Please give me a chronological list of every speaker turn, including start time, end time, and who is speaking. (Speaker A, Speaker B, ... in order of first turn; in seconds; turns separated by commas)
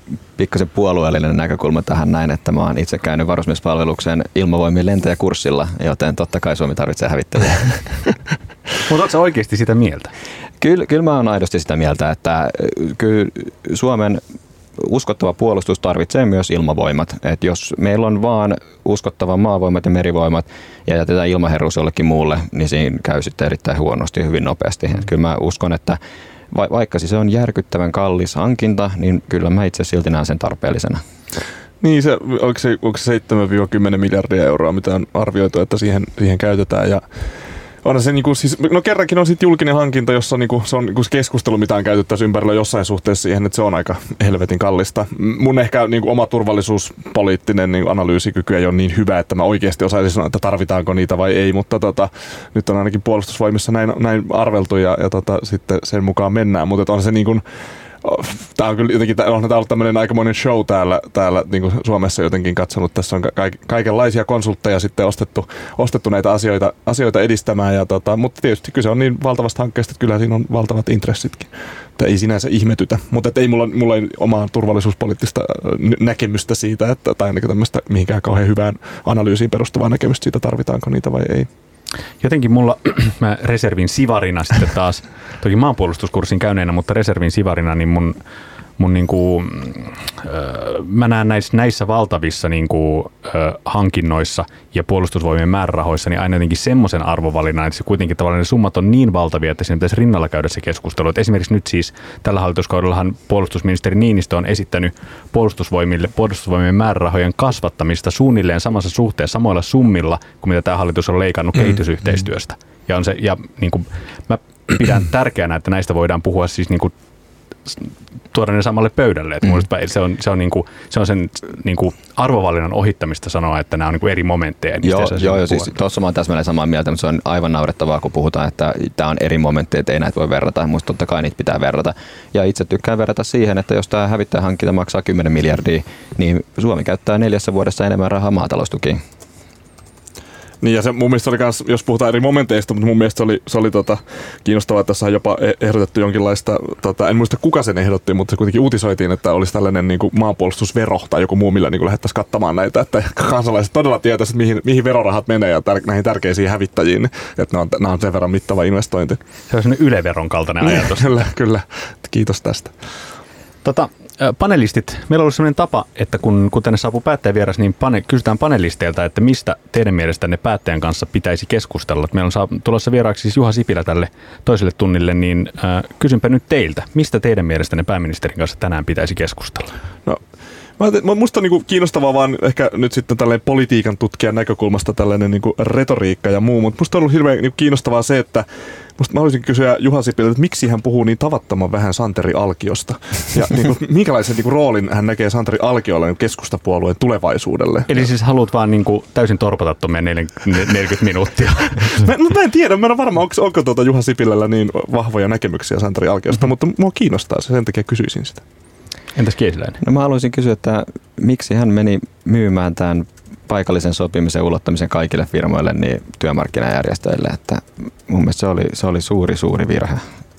Speaker A: 0.4-7.8, Speaker B: 8.9-10.1, Speaker A: 10.6-14.2, Speaker A: 14.8-26.0, Speaker A: 26.5-31.0, Speaker C: 31.8-37.0, Speaker C: 37.8-57.4, Speaker C: 58.0-81.5, Speaker B: 82.2-88.2, Speaker B: 88.8-116.9, Speaker B: 117.7-125.8, Speaker A: 124.8-139.0, Speaker C: 140.6-159.2, Speaker B: 159.5-161.1, Speaker C: 160.6-162.7, Speaker B: 163.6-179.7, Speaker C: 180.8-188.5, Speaker C: 189.0-198.1, Speaker B: 197.9-202.1, Speaker C: 201.9-208.4, Speaker B: 209.2-209.8, Speaker A: 209.8-220.0